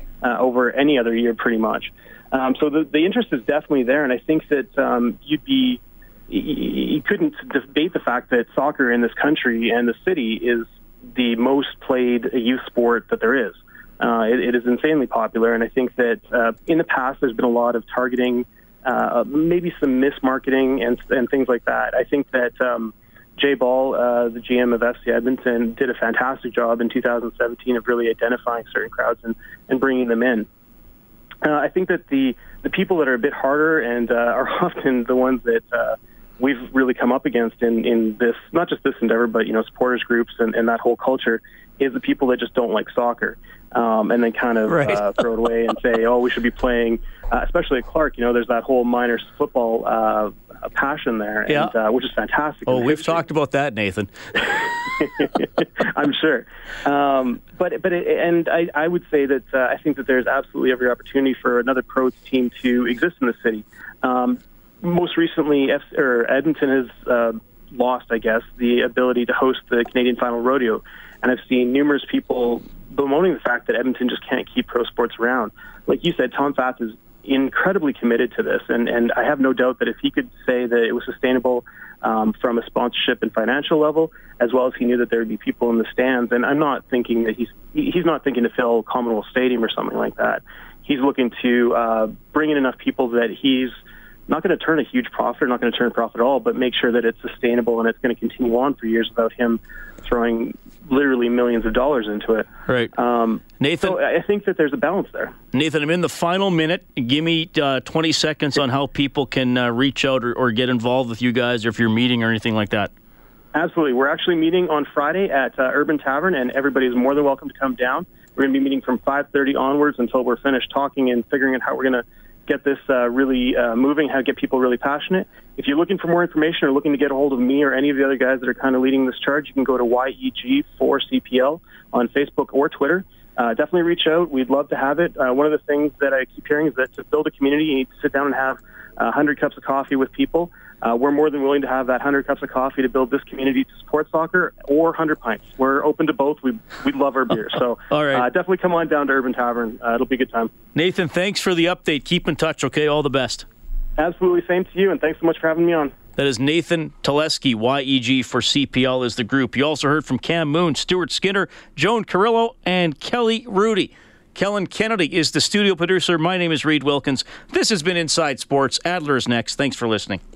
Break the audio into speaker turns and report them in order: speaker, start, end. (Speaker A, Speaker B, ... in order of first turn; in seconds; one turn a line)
Speaker A: 0.2-30.5
Speaker A: 31.4-53.2
Speaker B: 44.7-45.1
Speaker B: 51.5-51.7
Speaker B: 52.7-54.5
Speaker A: 55.0-93.8
Speaker A: 94.3-105.4
Speaker B: 103.6-104.0
Speaker B: 105.5-112.9
Speaker A: 113.5-150.5
Speaker B: 147.9-148.3
Speaker B: 150.8-153.5
Speaker A: 154.0-155.9
Speaker B: 156.2-170.2